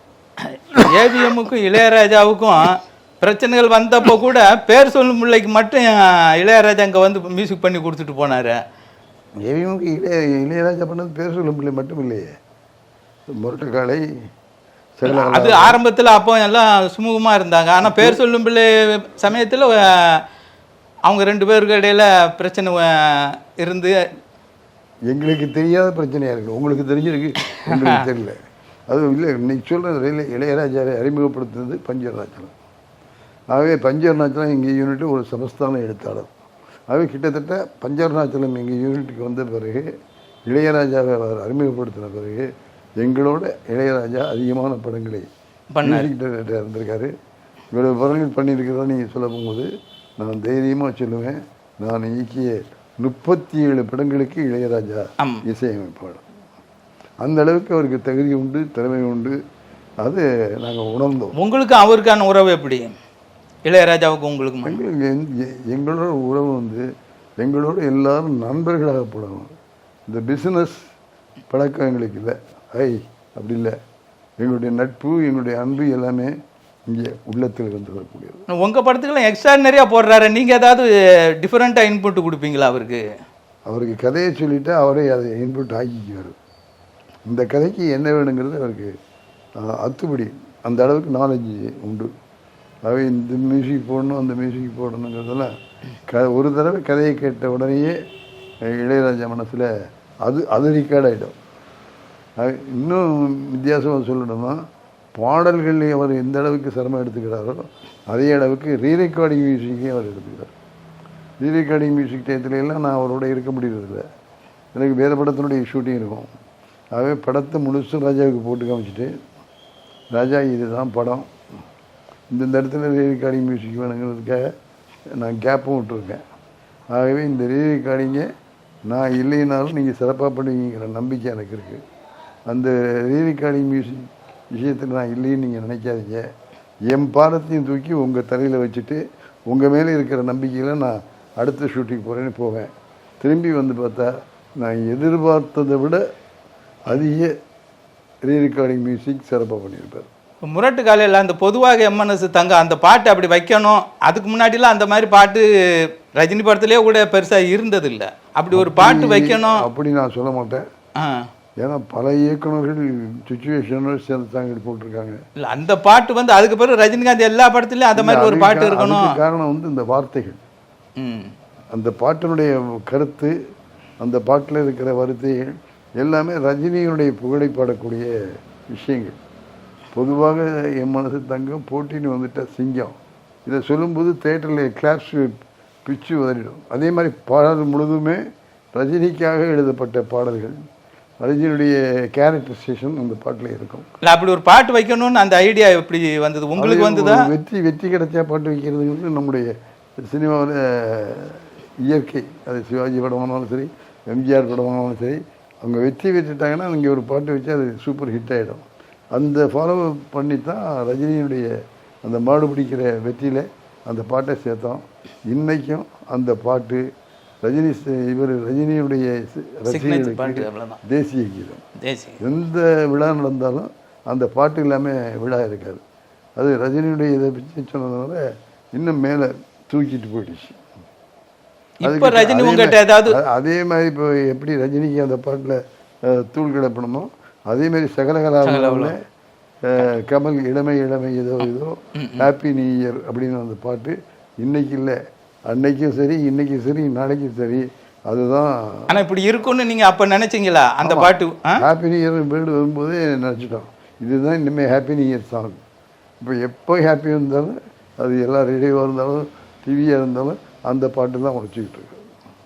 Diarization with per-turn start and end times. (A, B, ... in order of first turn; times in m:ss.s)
0:00.4-0:08.6 A
0:09.4-0:12.3 B
0:13.3-0:14.0 B
0:15.0-0:15.8 B
0:15.0-0:20.2 A
0:17.8-0:18.2 B
0:21.0-0:23.9 A
0:25.1-0:28.4 B
0:28.9-0:32.5 B
0:33.5-0:36.3 B
0:36.9-0:39.9 B
0:40.5-0:42.4 B
0:43.0-0:45.3 B
0:45.7-0:46.1 A
0:45.8-0:47.1 B
0:47.7-0:49.7 B
0:50.2-0:56.2 B
0:57.2-0:59.4 B
1:00.0-1:01.3 B
1:01.4-1:02.9 A
1:03.6-1:04.8 A
1:04.6-1:06.8 B
1:07.4-1:09.5 B
1:10.1-1:10.8 B
1:11.5-1:13.7 B
1:14.4-1:16.3 B
1:16.9-1:18.4 B
1:18.5-1:20.9 A
1:21.4-1:23.0 A
1:23.6-1:26.3 B
1:27.3-1:28.9 B
1:29.6-1:32.1 B
1:32.8-1:35.5 B
1:36.1-1:38.0 B
1:38.6-1:39.7 B
1:40.2-1:41.4 B
1:42.4-1:44.6 B
1:45.1-1:50.5 B
1:51.4-1:54.0 B
1:54.7-1:56.3 B
1:56.9-1:59.1 B
2:00.1-2:01.3 B
2:02.3-2:04.4 B
2:05.1-2:06.2 B
2:06.9-2:08.3 B
2:08.9-2:11.8 B
2:12.5-2:16.2 B
2:16.9-2:22.7 B
2:23.2-2:24.1 B
2:24.6-2:26.0 B
2:26.8-2:27.3 B
2:28.2-2:30.1 B
2:30.4-2:35.4 A
2:36.1-2:39.6 A
2:38.5-2:40.6 B
2:41.6-2:45.2 B
2:45.4-2:49.2 A
2:47.9-2:50.4 B
2:51.0-2:51.3 A
2:51.7-2:53.3 B
2:54.0-2:58.1 B
2:58.7-2:59.2 B
2:59.9-3:08.2 B
3:08.7-3:10.5 B
3:11.2-3:13.8 B
3:14.0-3:17.3 A
3:16.6-3:19.5 B
3:20.0-3:31.5 B
3:32.0-3:36.8 B
3:37.4-3:41.6 B
3:39.7-3:40.8 A
3:41.8-3:42.2 A
3:42.2-3:45.8 B
3:46.4-3:48.2 B
3:48.7-3:50.6 B
3:51.8-3:53.2 A
3:51.8-3:59.0 B
3:58.4-3:58.9 A
3:59.6-4:08.9 B
4:02.0-4:02.3 A
4:08.9-4:11.5 A
4:10.8-4:15.6 B
4:16.2-4:22.0 B